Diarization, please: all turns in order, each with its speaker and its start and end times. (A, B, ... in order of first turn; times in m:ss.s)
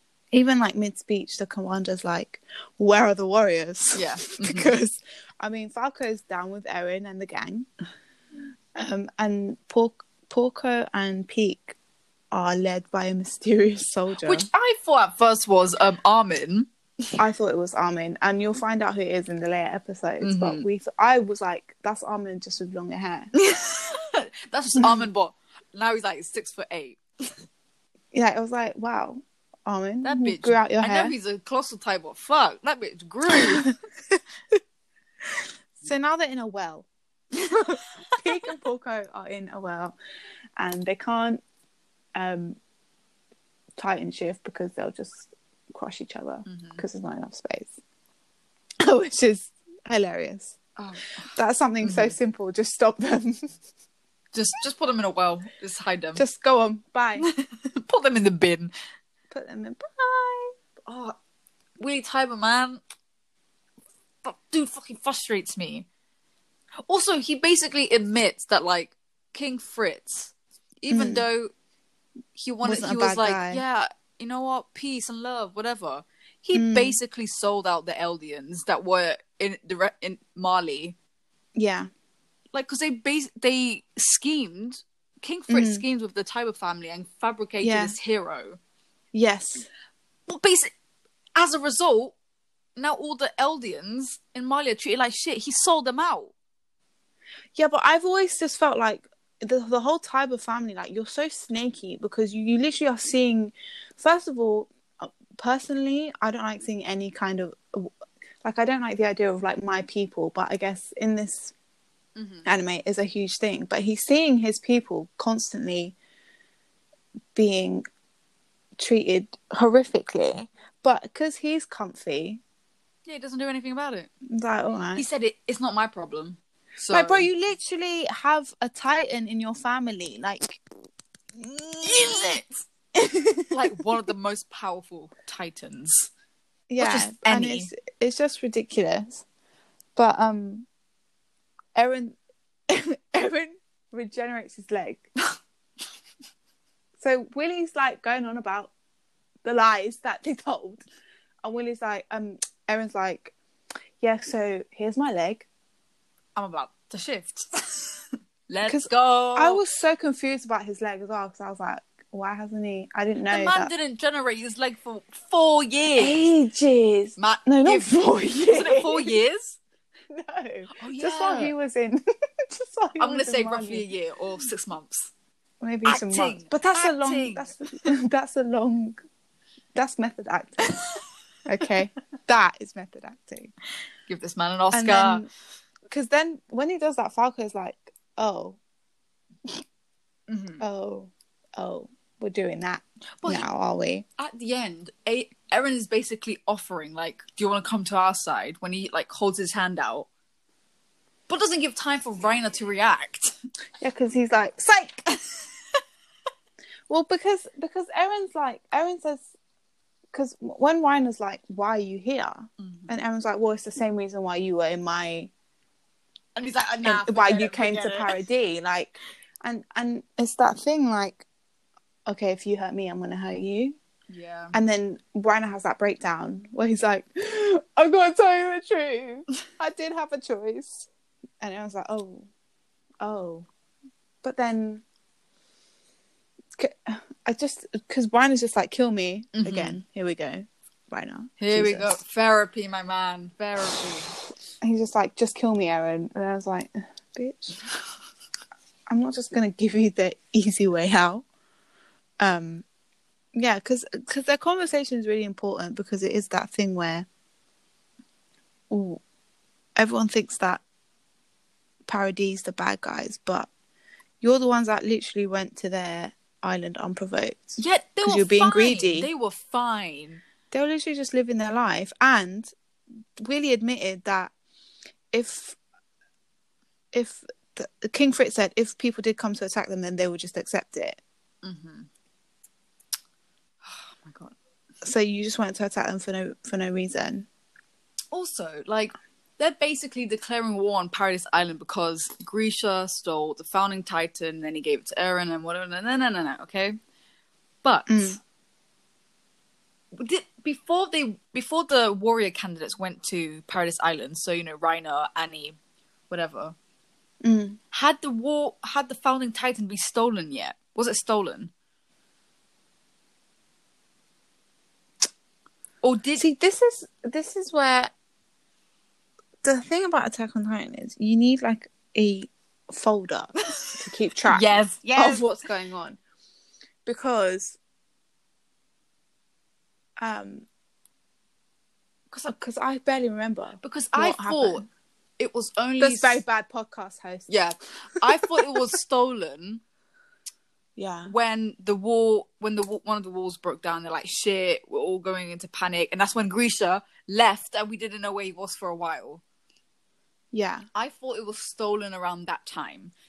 0:00.3-0:07.7 A
0:03.9-0:04.7 B
0:08.8-0:11.8 A
0:12.3-0:14.5 A
0:14.2-0:16.7 B
0:17.2-0:23.3 A
0:20.2-0:20.6 B
0:23.3-0:27.0 B
0:24.8-0:25.1 A
0:28.1-0:31.1 A
0:30.0-0:33.7 B
0:33.3-0:33.6 A
0:35.8-0:36.9 A
0:37.5-0:40.0 A
0:40.6-0:41.4 A
0:42.1-0:42.6 A
0:43.8-0:47.8 A
0:46.4-0:46.8 B
0:48.8-0:50.6 A
0:50.8-0:52.2 B
0:51.3-0:53.5 A
0:54.3-0:56.2 B
0:56.2-0:57.3 A
0:57.2-0:58.7 B
0:59.3-1:00.5 A
1:00.8-1:01.2 B
1:01.8-1:02.8 B
1:04.2-1:05.9 B
1:06.9-1:11.5 B
1:10.9-1:11.2 A
1:12.3-1:21.0 B
1:12.6-1:13.6 A
1:16.5-1:17.0 A
1:21.6-1:21.9 A
1:22.5-1:28.6 B
1:25.5-1:25.8 A
1:27.6-1:28.0 A
1:29.1-1:29.7 A
1:30.3-1:30.7 B
1:31.4-1:32.1 B
1:32.8-1:36.3 B
1:37.5-1:51.5 A
1:52.2-1:52.5 B
1:52.4-1:55.9 A
1:57.3-1:57.8 A
1:58.8-2:02.4 A
2:03.0-2:04.1 B
2:04.3-2:05.0 A
2:04.9-2:07.3 B
2:06.9-2:10.6 A
2:11.4-2:12.4 A
2:11.5-2:12.7 B
2:12.9-2:13.8 A
2:13.5-2:16.1 B
2:16.7-2:19.2 A
2:16.8-2:17.7 B
2:20.0-2:20.7 A
2:21.8-2:22.2 A
2:22.7-2:25.1 A
2:27.0-2:28.7 A
2:29.4-2:30.8 A
2:31.4-2:33.3 A
2:34.0-2:35.5 A
2:36.4-2:39.6 B
2:38.6-2:43.7 A
2:43.3-2:46.2 B
2:46.0-2:49.1 A
2:47.2-2:49.6 B
2:50.1-2:53.8 A
2:50.7-2:51.5 B
2:53.0-2:55.1 B
2:55.6-2:59.0 A
2:55.8-2:57.9 B
2:59.7-3:00.8 A
3:01.4-3:03.5 A
3:04.1-3:05.2 B
3:04.7-3:05.3 A
3:05.9-3:08.6 A
3:10.3-3:10.6 B
3:10.6-3:14.0 A
3:14.2-3:20.1 B
3:21.3-3:23.3 B
3:23.8-3:25.1 A
3:26.9-3:29.3 A
3:30.1-3:35.3 A
3:32.6-3:32.9 B
3:36.4-3:38.1 B
3:36.8-3:41.2 A
3:42.0-3:43.8 A
3:44.1-3:44.6 B
3:44.5-3:50.9 A
3:51.4-3:52.3 A
3:53.0-3:53.5 A
3:54.2-3:54.8 A
3:56.6-4:01.9 A
3:59.3-3:59.8 B
4:01.4-4:04.1 B
4:04.6-4:07.6 A
4:08.9-4:11.2 A
4:12.2-4:12.6 A
4:13.3-4:17.1 A
4:18.7-4:19.0 A
4:19.8-4:20.6 A
4:21.9-4:23.5 A
4:24.2-4:29.1 A
4:27.6-4:30.2 B
4:30.5-4:32.5 A
4:33.2-4:34.3 A
4:35.1-4:35.6 A
4:36.9-4:41.0 A
4:41.4-4:41.9 B
4:43.6-4:44.4 B
4:44.8-4:47.3 A
4:48.1-4:56.8 B
4:57.6-4:58.2 B
4:57.9-4:58.2 A
5:00.0-5:05.6 B
5:06.1-5:06.6 B
5:07.2-5:07.6 A
5:07.7-5:11.5 B
5:15.8-5:16.2 B
5:16.2-5:17.9 A
5:19.4-5:26.0 A
5:24.3-5:25.3 B
5:26.8-5:27.6 A
5:30.0-5:30.4 A
5:32.3-5:34.6 A
5:33.6-5:34.6 B
5:35.2-5:36.2 B
5:35.8-5:37.3 A
5:37.3-5:39.6 B
5:38.0-5:38.7 A
5:40.8-5:41.1 A
5:41.1-5:49.2 B
5:50.3-5:50.7 A
5:50.7-5:52.9 B